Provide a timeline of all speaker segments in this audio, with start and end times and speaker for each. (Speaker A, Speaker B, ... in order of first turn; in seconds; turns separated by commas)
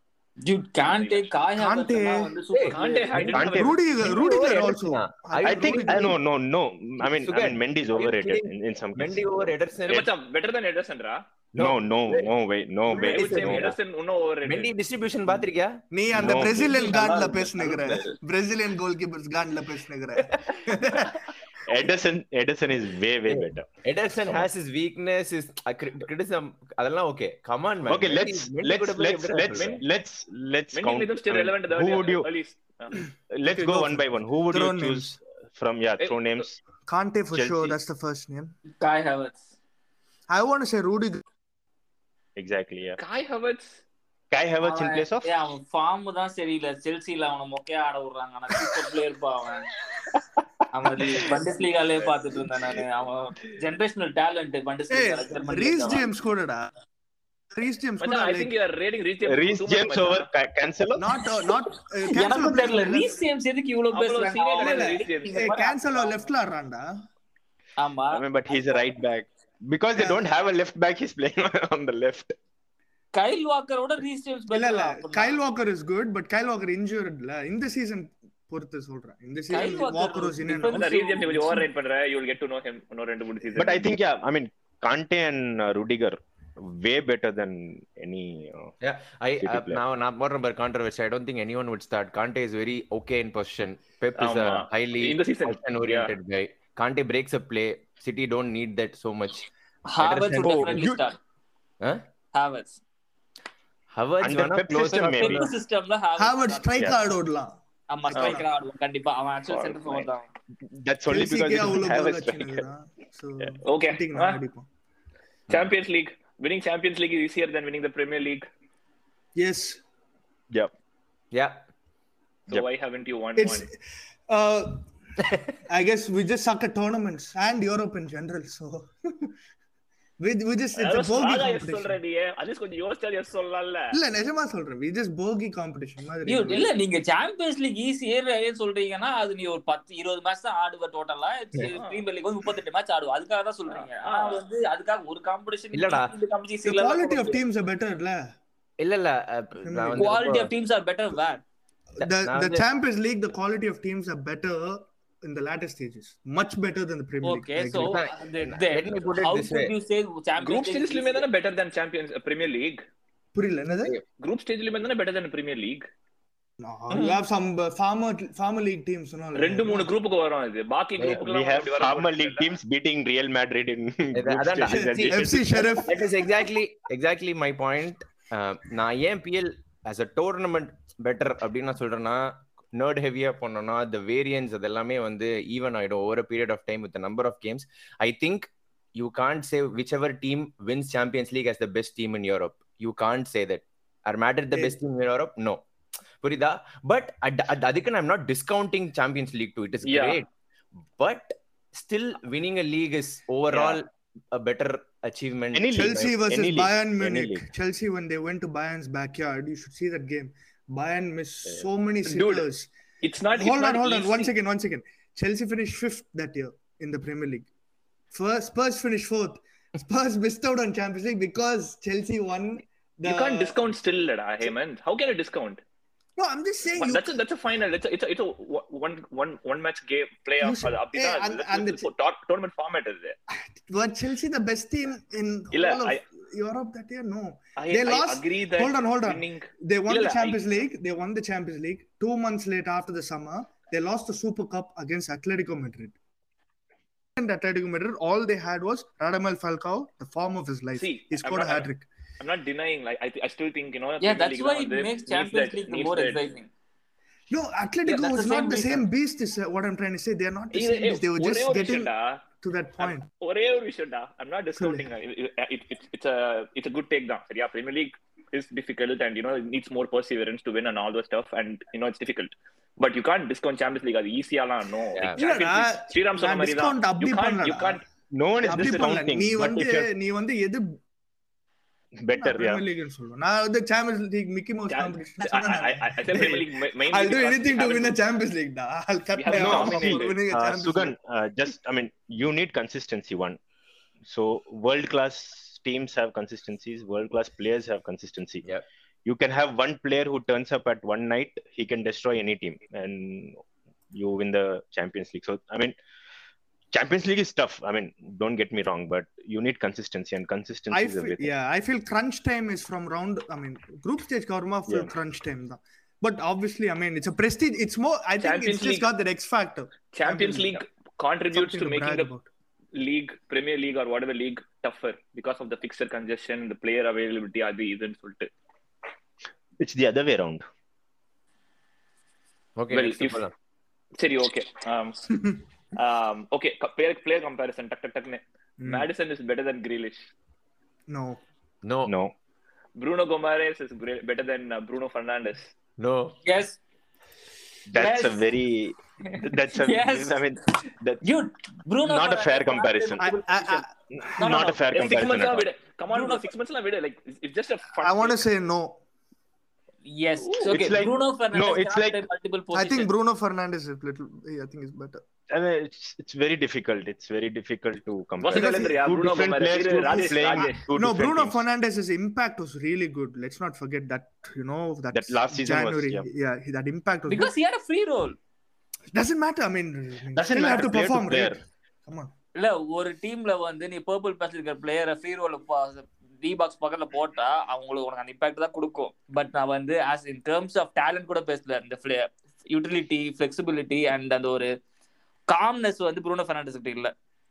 Speaker A: 0.4-3.3, Speaker B: 0.8-1.3, Speaker C: 1.6-2.3, Speaker D: 2.5-6.2, Speaker B: 2.7-3.7, Speaker E: 3.3-3.7, Speaker C: 3.4-6.2, Speaker E: 5.4-9.5, Speaker D: 7.0-10.1, Speaker B: 9.9-11.2, Speaker D: 11.6-12.3, Speaker E: 11.6-13.7, Speaker D: 12.9-13.7, Speaker B: 12.9-14.7, Speaker D: 14.4-16.3, Speaker C: 15.9-21.2, Speaker E: 16.1-17.2, Speaker B: 16.8-18.1, Speaker E: 21.7-23.7, Speaker D: 23.3-29.8, Speaker E: 27.9-32.3, Speaker B: 29.6-29.8, Speaker B: 30.7-33.0, Speaker E: 33.3-36.6, Speaker C: 33.5-35.1, Speaker B: 36.0-36.5, Speaker C: 36.9-38.5, Speaker E: 37.3-37.8, Speaker A: 38.8-39.5, Speaker C: 40.3-41.2, Speaker E: 42.4-43.0, Speaker B: 43.0-43.8, Speaker E: 44.3-45.3, Speaker A: 44.6-49.7, Speaker A: 50.7-56.1, Speaker E: 51.0-51.3, Speaker C: 54.9-56.7, Speaker C: 57.5-58.5, Speaker B: 58.0-60.3, Speaker E: 59.2-61.1, Speaker C: 61.0-63.2, Speaker A: 62.1-66.3, Speaker B: 63.9-65.5, Speaker C: 64.5-67.0, Speaker A: 67.8-68.2, Speaker E: 68.1-72.3, Speaker C: 70.0-70.2, Speaker A: 73.1-75.3, Speaker C: 74.5-80.8, Speaker A: 79.5-81.7, Speaker B: 79.5-79.8, Speaker B: 80.6-83.9, Speaker E: 83.6-88.7, Speaker D: 88.8-99.5, Speaker E: 89.4-89.8, Speaker B: 94.2-96.1, Speaker A: 99.9-101.2, Speaker E: 100.0-101.0, Speaker D: 100.0-100.9, Speaker A: 102.3-102.8, Speaker D: 103.9-105.5, Speaker E: 104.2-105.5, Speaker A: 104.8-106.8, Speaker C: 106.2-107.6, Speaker A: 107.9-110.3, Speaker C: 108.1-108.5, Speaker B: 108.2-108.4, Speaker B: 109.5-110.1, Speaker E: 110.7-112.7, Speaker C: 111.1-114.7, Speaker B: 113.6-114.4, Speaker B: 115.5-118.5, Speaker C: 119.4-119.8, Speaker D: 121.3-121.6, Speaker B: 122.5-123.7, Speaker C: 123.4-123.8, Speaker C: 124.3-124.9, Speaker D: 125.2-125.5, Speaker C: 125.7-129.3, Speaker C: 130.2-132.0, Speaker B: 130.8-134.0, Speaker C: 133.9-136.7, Speaker A: 136.2-147.4, Speaker B: 141.7-142.0, Speaker B: 143.7-144.4, Speaker D: 145.7-146.1, Speaker C: 146.7-148.3, Speaker D: 148.8-150.5, Speaker C: 149.6-150.1, Speaker A: 150.0-151.4, Speaker C: 152.0-158.0, Speaker D: 152.0-152.7, Speaker A: 157.2-161.2, Speaker D: 157.8-159.7, Speaker B: 160.4-162.8, Speaker C: 163.3-164.0, Speaker B: 164.2-165.9, Speaker C: 166.6-169.9, Speaker B: 169.3-172.6, Speaker D: 171.0-171.2, Speaker E: 171.1-175.6, Speaker D: 174.2-195.6, Speaker C: 174.7-176.0, Speaker D: 196.2-200.3, Speaker B: 199.8-200.2, Speaker D: 201.0-206.1, Speaker B: 203.5-203.8, Speaker E: 205.5-207.4, Speaker C: 205.7-212.7, Speaker B: 212.1-212.5, Speaker B: 213.0-214.3, Speaker C: 213.3-217.5, Speaker C: 218.1-223.6, Speaker B: 223.1-225.6, Speaker C: 226.2-227.1, Speaker B: 226.8-233.2, Speaker C: 230.4-231.9, Speaker C: 233.6-245.9, Speaker B: 235.5-236.0, Speaker B: 237.6-240.6, Speaker C: 247.2-251.9, Speaker B: 250.8-251.7, Speaker B: 252.2-256.2, Speaker A: 254.0-256.5, Speaker C: 257.3-263.1, Speaker A: 257.9-258.9, Speaker B: 260.5-262.2, Speaker B: 262.8-277.8, Speaker C: 264.6-264.9, Speaker D: 274.9-275.2, Speaker C: 275.2-277.9, Speaker E: 278.1-279.9, Speaker C: 278.4-280.8, Speaker B: 278.5-278.8, Speaker E: 282.0-282.6, Speaker C: 282.1-290.9, Speaker B: 284.7-287.9, Speaker B: 289.1-290.2, Speaker E: 289.3-293.4, Speaker E: 294.1-298.4, Speaker E: 299.1-303.4, Speaker E: 303.9-305.8, Speaker E: 306.7-311.3, Speaker C: 310.7-320.6, Speaker B: 318.2-318.9, Speaker B: 319.9-322.1, Speaker C: 321.3-322.3, Speaker B: 322.8-328.3, Speaker E: 329.6-330.5, Speaker D: 332.6-333.3, Speaker B: 332.7-333.2, Speaker B: 334.0-335.0, Speaker B: 335.8-340.0, Speaker C: 338.6-338.9, Speaker C: 340.9-341.2, Speaker D: 341.6-341.9, Speaker E: 341.9-342.1, Speaker B: 342.8-345.5, Speaker D: 345.8-346.2, Speaker A: 346.2-346.6, Speaker E: 347.7-351.0, Speaker A: 347.8-348.3, Speaker A: 349.0-350.2, Speaker A: 351.0-353.7, Speaker E: 351.8-353.1, Speaker C: 353.0-354.2, Speaker E: 353.9-355.5, Speaker A: 354.2-355.1, Speaker B: 354.7-358.3, Speaker A: 355.9-356.3, Speaker C: 357.8-358.8, Speaker A: 359.9-362.9, Speaker B: 360.2-360.6, Speaker E: 360.4-362.1, Speaker C: 362.5-365.0, Speaker E: 365.3-371.5, Speaker B: 368.2-370.6, Speaker C: 368.3-368.8, Speaker C: 369.7-377.3, Speaker E: 374.9-376.1, Speaker A: 377.1-378.2, Speaker C: 378.9-382.1, Speaker E: 380.1-381.4, Speaker A: 382.4-394.6, Speaker A: 395.3-396.9